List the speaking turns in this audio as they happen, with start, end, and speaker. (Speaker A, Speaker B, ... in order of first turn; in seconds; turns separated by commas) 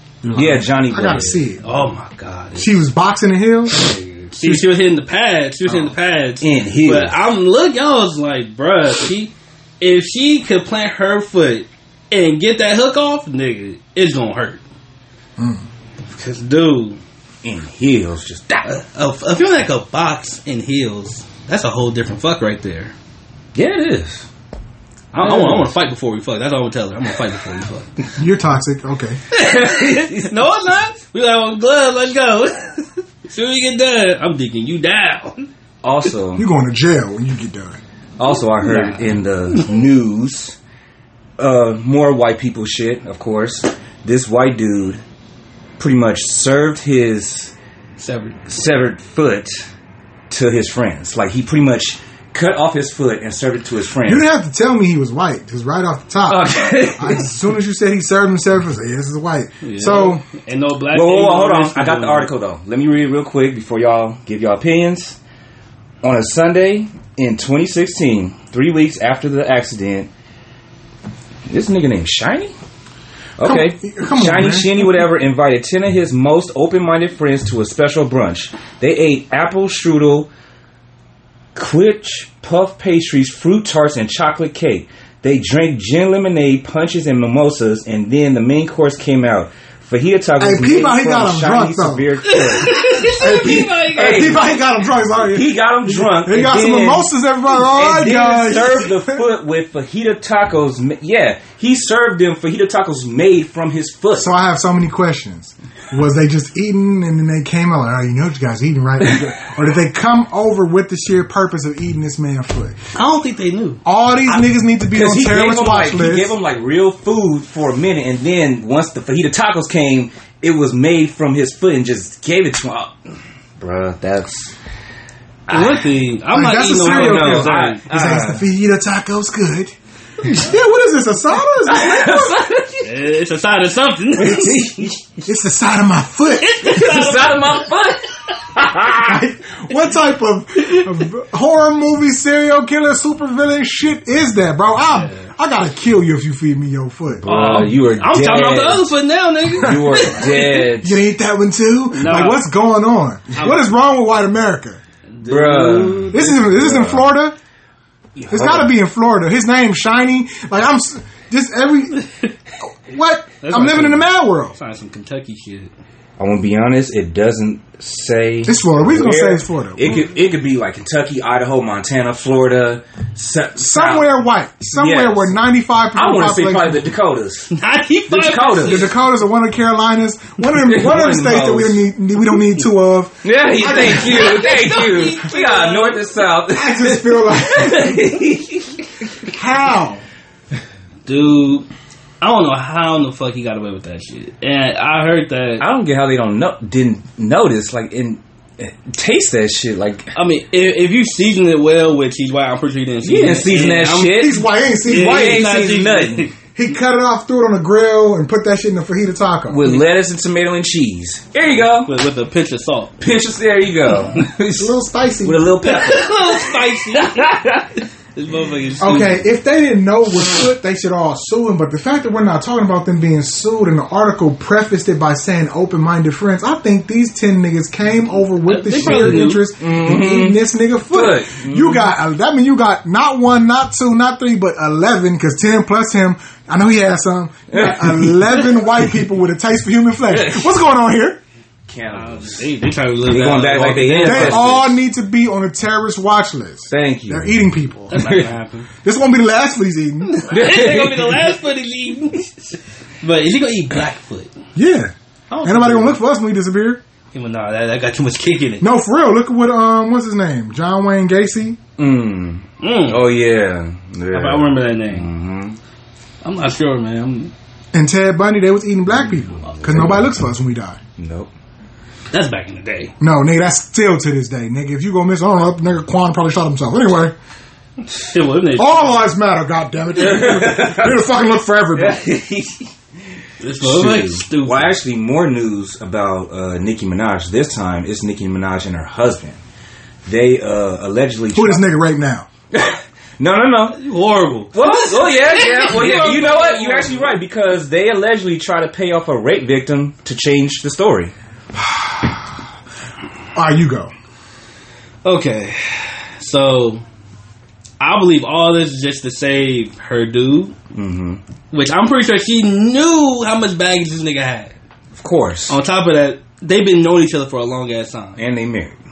Speaker A: 0.2-1.6, Speaker B: 0.3-1.4, Speaker C: 1.6-2.8, Speaker A: 2.5-3.8, Speaker C: 3.9-14.6, Speaker A: 4.4-4.7, Speaker B: 6.4-7.2, Speaker A: 15.4-15.6, Speaker C: 16.0-17.0, Speaker B: 17.4-18.7, Speaker C: 18.6-22.9, Speaker B: 23.5-24.3, Speaker C: 25.1-27.9, Speaker B: 25.2-25.7, Speaker A: 28.2-29.2, Speaker C: 29.3-35.5, Speaker B: 29.9-30.2, Speaker B: 35.8-36.5, Speaker A: 36.4-37.8, Speaker B: 38.2-40.6, Speaker C: 38.6-39.1, Speaker B: 41.4-45.0, Speaker B: 45.8-47.5, Speaker C: 48.0-48.4, Speaker B: 48.5-49.6, Speaker B: 50.3-54.2, Speaker A: 54.0-60.2, Speaker B: 56.3-57.3, Speaker C: 59.6-62.3, Speaker B: 60.9-65.2, Speaker B: 66.0-70.1, Speaker B: 71.5-72.5, Speaker B: 73.4-80.3, Speaker A: 73.4-74.9, Speaker B: 81.5-94.5, Speaker A: 90.4-92.1, Speaker C: 92.2-94.4, Speaker A: 93.1-99.2, Speaker B: 95.2-104.3, Speaker A: 104.2-112.8, Speaker C: 112.9-113.8, Speaker A: 113.8-116.3, Speaker B: 114.9-123.0, Speaker B: 123.6-124.5, Speaker B: 125.5-125.8, Speaker C: 125.5-128.2, Speaker A: 126.3-129.7, Speaker B: 126.7-128.4, Speaker A: 130.3-132.5, Speaker B: 131.7-132.9, Speaker C: 132.8-134.9, Speaker B: 134.2-135.1, Speaker A: 135.2-136.8, Speaker C: 136.4-137.7, Speaker B: 136.6-139.2, Speaker A: 139.0-147.3, Speaker C: 144.9-145.3, Speaker B: 147.2-148.9, Speaker C: 147.2-150.7, Speaker B: 149.6-151.0, Speaker A: 149.6-154.8, Speaker C: 151.9-152.4, Speaker C: 153.3-153.6, Speaker C: 155.1-156.3, Speaker B: 155.2-157.1, Speaker A: 156.1-157.3, Speaker B: 158.2-158.7, Speaker A: 158.3-162.0, Speaker A: 162.6-164.5, Speaker C: 163.4-165.7, Speaker B: 166.2-174.2, Speaker A: 168.4-170.0, Speaker A: 173.6-176.8, Speaker B: 174.7-175.4, Speaker B: 175.9-177.6, Speaker C: 177.5-178.9, Speaker B: 178.1-178.9, Speaker A: 178.6-184.4, Speaker B: 180.6-181.8, Speaker B: 183.2-189.2, Speaker C: 183.8-186.1, Speaker A: 186.5-188.0, Speaker A: 189.3-190.0, Speaker C: 191.1-191.7, Speaker C: 192.2-195.6, Speaker B: 195.6-200.1, Speaker C: 200.1-204.2, Speaker B: 203.0-206.3, Speaker A: 204.1-205.4, Speaker C: 204.9-206.3, Speaker A: 206.5-209.7, Speaker B: 209.5-211.9, Speaker C: 211.8-212.9, Speaker B: 213.0-217.7, Speaker A: 214.6-215.5, Speaker C: 215.6-217.4, Speaker C: 218.1-219.2, Speaker A: 218.8-241.2, Speaker C: 228.4-229.4, Speaker B: 228.8-231.9, Speaker B: 237.5-238.6, Speaker B: 240.1-240.5, Speaker B: 241.7-242.5, Speaker C: 241.9-244.5, Speaker B: 243.1-244.8, Speaker A: 244.0-248.0, Speaker B: 246.7-248.3, Speaker C: 247.9-248.7, Speaker A: 248.8-250.2, Speaker C: 250.1-254.3, Speaker B: 250.3-251.3, Speaker A: 254.5-256.8, Speaker C: 255.3-256.0, Speaker C: 257.1-258.6, Speaker A: 258.6-261.6, Speaker B: 261.8-265.6, Speaker C: 262.6-263.0, Speaker C: 264.1-265.1, Speaker C: 266.2-267.3, Speaker A: 267.7-270.8, Speaker B: 269.4-270.1, Speaker B: 271.0-271.3, Speaker C: 272.1-272.9, Speaker A: 273.0-277.1, Speaker C: 278.0-279.0, Speaker A: 278.6-282.0, Speaker B: 279.9-281.0, Speaker B: 281.7-282.7, Speaker C: 283.4-284.8, Speaker B: 283.6-289.4, Speaker B: 290.0-291.6, Speaker A: 291.3-292.3, Speaker B: 292.5-293.8, Speaker C: 293.7-297.1, Speaker B: 294.5-301.1, Speaker A: 301.5-302.3, Speaker A: 303.3-303.9, Speaker C: 305.0-306.8, Speaker C: 307.8-310.6, Speaker B: 310.7-311.2, Speaker C: 311.5-314.5, Speaker B: 314.9-315.6, Speaker C: 315.5-318.2, Speaker B: 318.2-318.8